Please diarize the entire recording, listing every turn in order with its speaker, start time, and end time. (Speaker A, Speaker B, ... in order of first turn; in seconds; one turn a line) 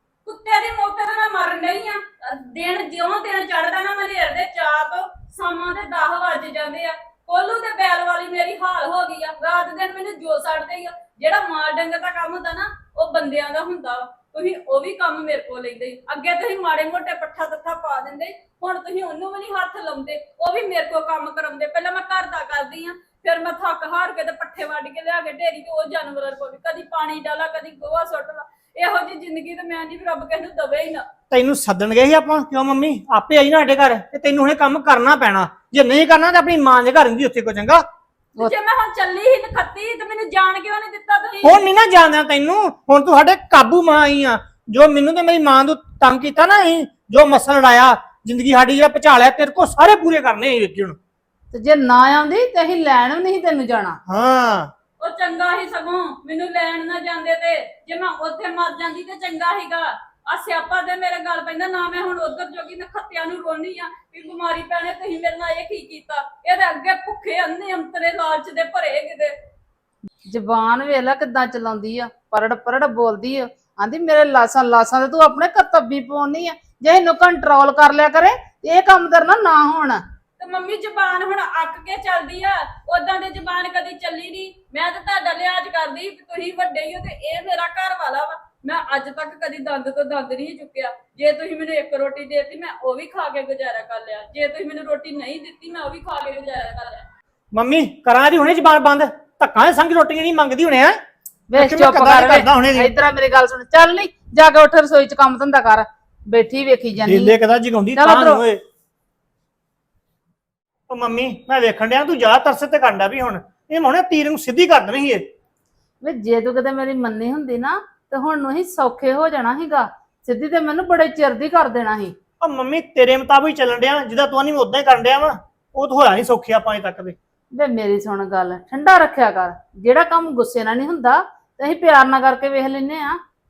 Speaker A: 0.3-31.1
Speaker B: 31.3-37.8
Speaker A: 38.4-41.6
Speaker B: 41.4-51.0
Speaker C: 51.5-54.0
Speaker B: 54.1-54.7
Speaker A: 55.0-69.3
Speaker C: 70.3-80.0
Speaker A: 80.4-97.1
Speaker B: 97.5-101.0
Speaker C: 101.5-107.4
Speaker B: 101.5-102.9
Speaker B: 107.0-108.6
Speaker C: 108.0-108.4
Speaker B: 110.9-115.2
Speaker C: 116.0-122.2
Speaker B: 122.4-127.2
Speaker C: 127.5-133.2